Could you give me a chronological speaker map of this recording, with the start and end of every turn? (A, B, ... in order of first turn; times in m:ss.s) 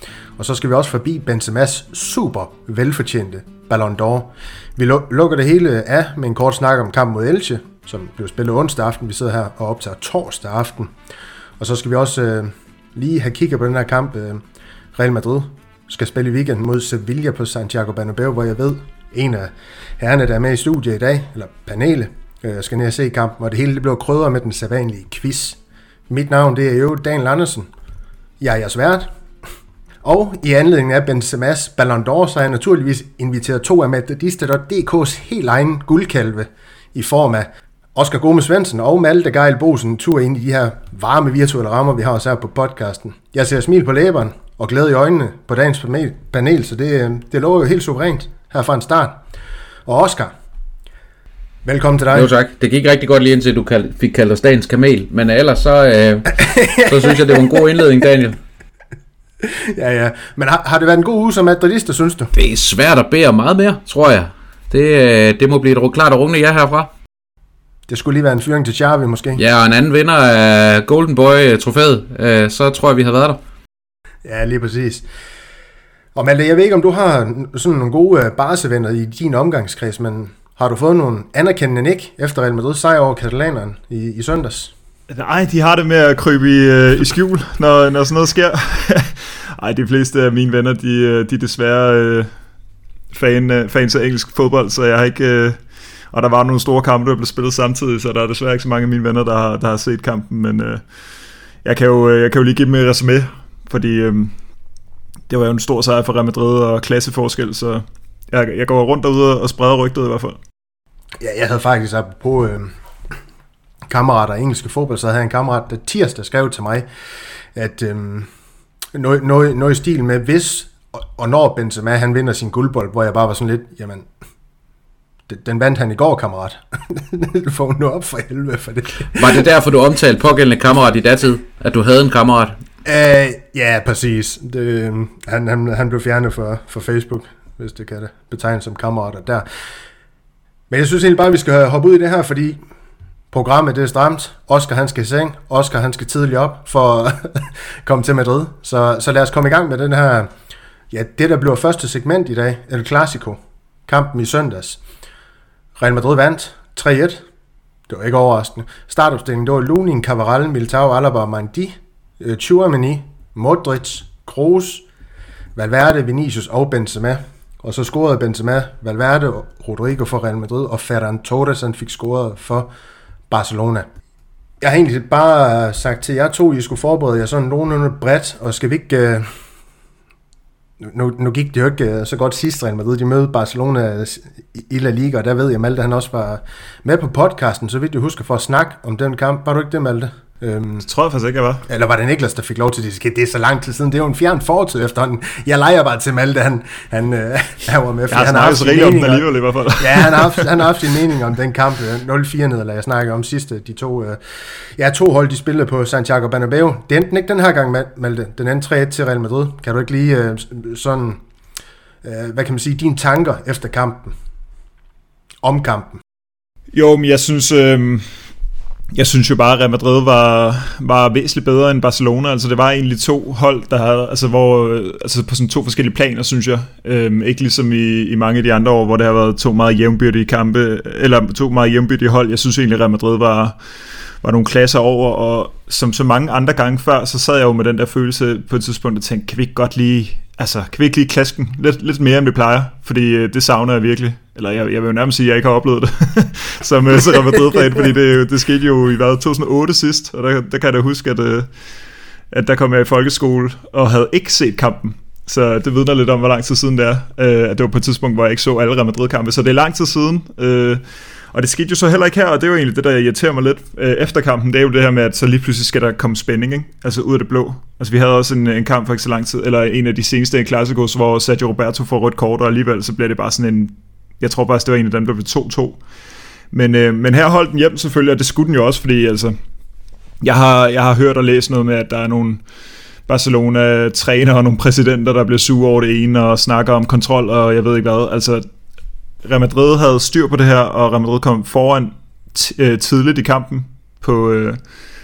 0:00.4-0:10.9 A
0:11.6-0:14.4 A
0:15.0-0:25.6 A
0:26.1-0:27.7 A
0:28.4-0:29.1 A
0:30.0-0:49.2 A
0:49.9-0:50.3 A
0:51.6-0:52.3 A
0:52.1-0:58.4 B
0:56.3-0:57.8 A
0:59.4-1:02.3 A
1:02.3-1:06.9 B
1:07.9-1:09.4 A
1:09.4-1:13.4 B
1:14.2-1:15.0 A
1:16.2-1:24.7 A
1:25.1-1:32.3 C
1:33.1-1:40.8 C
1:41.6-1:44.4 C
1:45.3-1:50.4 C
1:51.2-1:52.7 A
1:53.9-1:56.9 A
1:57.6-1:58.3 A
1:58.9-2:04.1 A
2:05.3-2:09.4 A
2:09.1-2:12.6 B
2:12.8-2:19.4 A
2:20.7-2:22.6 A
2:23.3-2:30.3 A
2:30.9-2:34.8 A
2:35.8-2:37.2 A
2:37.9-2:44.8 A
2:45.6-2:52.7 A
2:53.3-2:53.9 A
2:54.6-2:59.3 A
3:00.8-3:10.9 A
3:10.8-3:11.7 C
3:11.7-3:19.3 A
3:18.1-3:20.5 C
3:19.8-3:24.2 A
3:24.8-3:31.2 A
3:32.0-3:34.1 A
3:35.4-3:36.0 A
3:36.7-3:38.2 C
3:38.9-3:53.6 C
3:54.2-4:11.5 C
4:12.3-4:35.8 C
4:36.5-4:39.4 C
4:40.2-4:42.4 C
4:43.1-4:48.5 C
4:49.2-4:54.6 C